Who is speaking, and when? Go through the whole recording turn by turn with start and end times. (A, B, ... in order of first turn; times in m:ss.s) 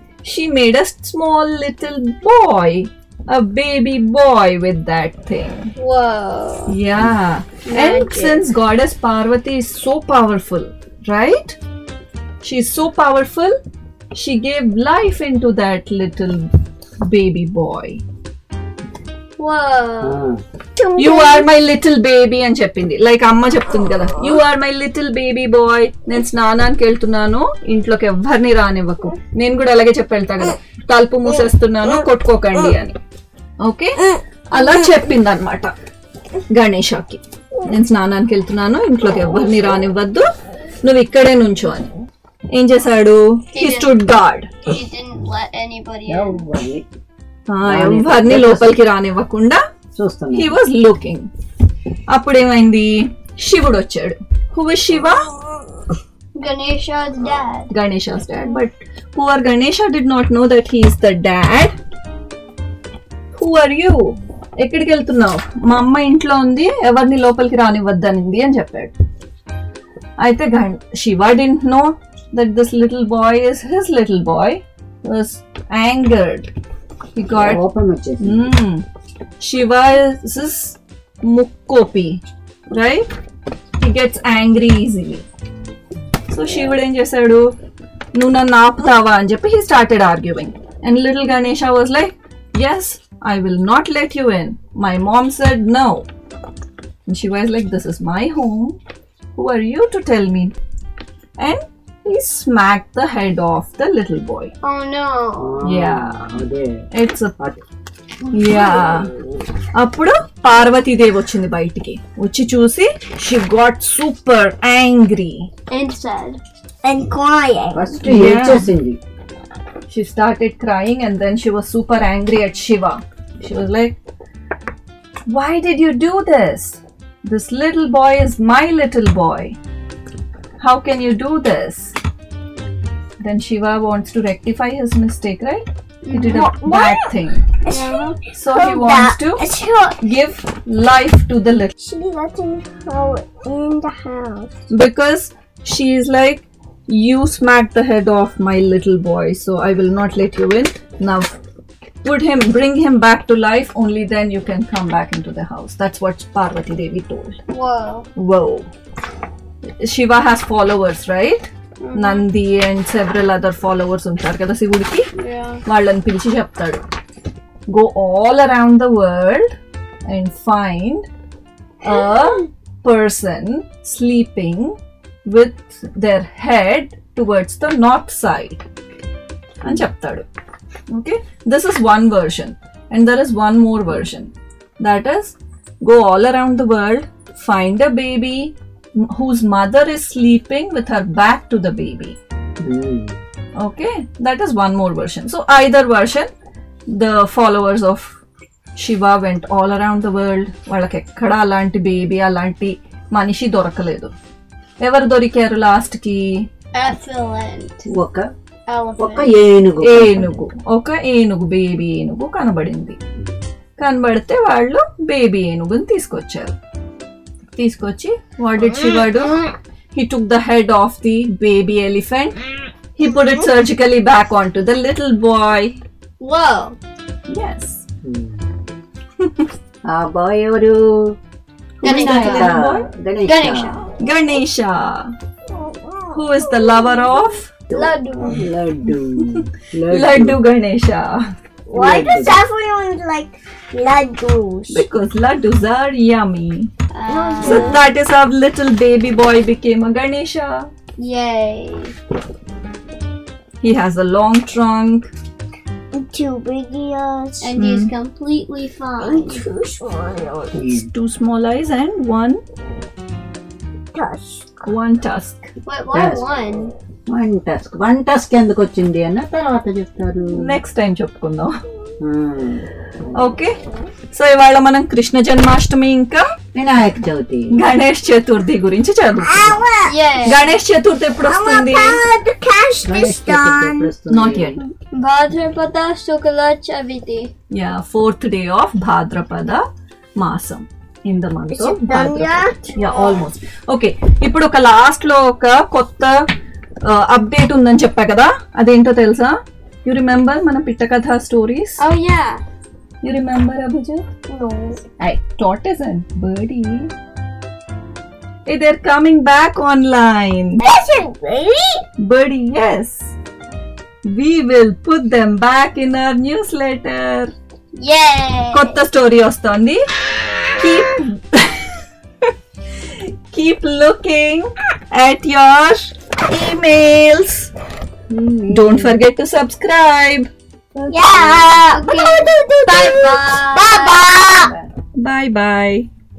0:00.2-0:05.7 A
0:05.8-0:06.7 B
0:06.7-0:11.6 A
0:07.6-0:08.4 B
0:12.4-0:13.6 A
0:14.1-0:16.5 A
0:17.0-0:18.0 A
0:19.4-0:20.2 B
0:20.0-0:20.4 C
0:20.8-0:21.4 B
0:21.0-0:33.0 A
0:33.6-0:35.7 A
0:36.5-0:40.2 A
0:40.8-0:41.9 A
0:42.5-0:44.5 A
0:43.5-0:44.0 B
0:44.6-0:46.4 B
0:46.1-0:46.8 C
0:47.5-0:49.6 A
0:47.6-0:48.8 C
0:50.0-0:50.6 C
0:50.3-0:51.3 A
0:52.1-0:55.3 A
0:56.4-0:57.7 B
0:57.7-1:01.7 A
1:03.4-1:08.9 A
1:10.2-1:16.5 A
1:17.2-1:17.6 A
1:17.4-1:18.5 C
1:18.2-1:18.8 A
1:19.4-1:23.1 A
1:23.8-1:25.2 A
1:26.3-1:27.5 A
1:28.1-1:36.0 A
1:37.1-1:38.8 A
1:39.3-1:40.5 A
1:41.4-1:44.5 A
1:44.6-1:45.6 B
1:45.4-1:46.8 C
1:45.6-1:46.4 A
1:46.9-1:47.3 A
1:48.3-1:49.1 A
1:49.7-1:55.5 A
1:55.7-1:56.4 B
1:56.8-1:58.0 D
1:57.7-1:59.0 C
1:58.0-1:58.7 A
1:59.9-2:04.0 A
2:05.3-2:09.6 A
2:10.6-2:12.0 A
2:13.2-2:17.5 A
2:16.0-2:16.4 B
2:16.3-2:17.1 D
2:17.6-2:20.0 D
2:17.7-2:18.1 B
2:18.3-2:19.4 A
2:20.0-2:21.7 A
2:21.8-2:24.5 D
2:24.7-2:31.4 A
2:32.0-2:37.4 A
2:37.5-2:38.1 B
2:38.2-2:38.7 A
2:39.6-2:45.1 A
2:41.8-2:42.2 B
2:45.2-2:45.6 B
2:45.6-2:46.8 A
2:47.7-2:49.5 A
2:50.0-2:51.0 A
2:51.8-2:58.6 A
2:59.6-3:00.2 A
3:00.9-3:08.5 A
3:09.1-3:12.2 A
3:12.6-3:13.2 C
3:13.6-3:16.3 A
3:16.9-3:18.2 A
3:18.8-3:24.1 A
3:24.8-3:26.5 A
3:26.7-3:27.9 B
3:27.9-3:28.3 C
3:28.7-3:29.3 B
3:29.0-3:30.4 C
3:29.8-3:33.0 A
3:33.8-3:36.5 A
3:37.6-3:42.4 A
3:43.0-3:45.7 A
3:46.2-3:46.8 B
3:47.3-3:47.8 A
3:48.0-3:48.4 C
3:49.2-3:49.5 A
3:49.9-3:51.1 C
3:51.8-3:52.5 B
3:51.8-3:52.9 A
3:51.8-3:53.8 C
3:53.2-3:53.8 B
3:54.0-3:55.1 A
3:55.5-3:56.1 D
3:56.1-3:57.5 A
3:57.7-3:58.4 B
3:57.7-4:00.4 C
3:59.3-4:01.2 A
4:01.7-4:04.8 D
4:01.7-4:02.4 C
4:04.7-4:06.7 A
4:06.9-4:07.8 B
4:07.1-4:07.8 D
4:07.4-4:10.7 A
4:11.0-4:11.9 B
4:13.6-4:15.1 A
4:15.9-4:17.5 D
4:17.4-4:19.4 B
4:17.6-4:17.9 A
4:19.0-4:20.5 D
4:20.5-4:20.9 C
4:20.6-4:22.4 A
4:23.9-4:24.5 D
4:24.6-4:25.5 A
4:25.6-4:26.7 B
4:25.9-4:26.2 C
4:27.1-4:30.6 C
4:30.3-4:31.5 A
4:32.0-4:33.3 C
4:33.2-4:33.6 A
4:34.1-4:36.3 A
4:36.5-4:37.5 C
4:37.5-4:39.7 A
4:39.2-4:40.0 D
4:39.8-4:40.5 B
4:40.2-4:42.0 A
4:41.2-4:43.9 D
4:42.8-4:44.6 C
4:44.1-4:44.6 A
4:44.9-4:47.3 B
4:47.5-4:49.6 A
4:50.2-4:56.3 A
4:51.5-4:53.2 D
4:56.8-5:01.8 A
5:01.8-5:02.4 B
5:03.0-5:04.0 A
5:04.3-5:04.8 D
5:05.0-5:06.9 A
5:08.5-5:10.6 A
5:10.6-5:11.8 D
5:12.0-5:13.1 A
5:14.1-5:17.3 A
5:17.8-5:18.8 B
5:18.5-5:19.8 A
5:20.5-5:21.8 A
5:22.8-5:27.5 A
5:28.1-5:29.0 C
5:28.5-5:30.3 A
5:30.9-5:34.5 D
5:31.0-5:31.3 C
5:31.1-5:31.6 A
5:31.7-5:34.4 B
5:35.0-5:35.9 A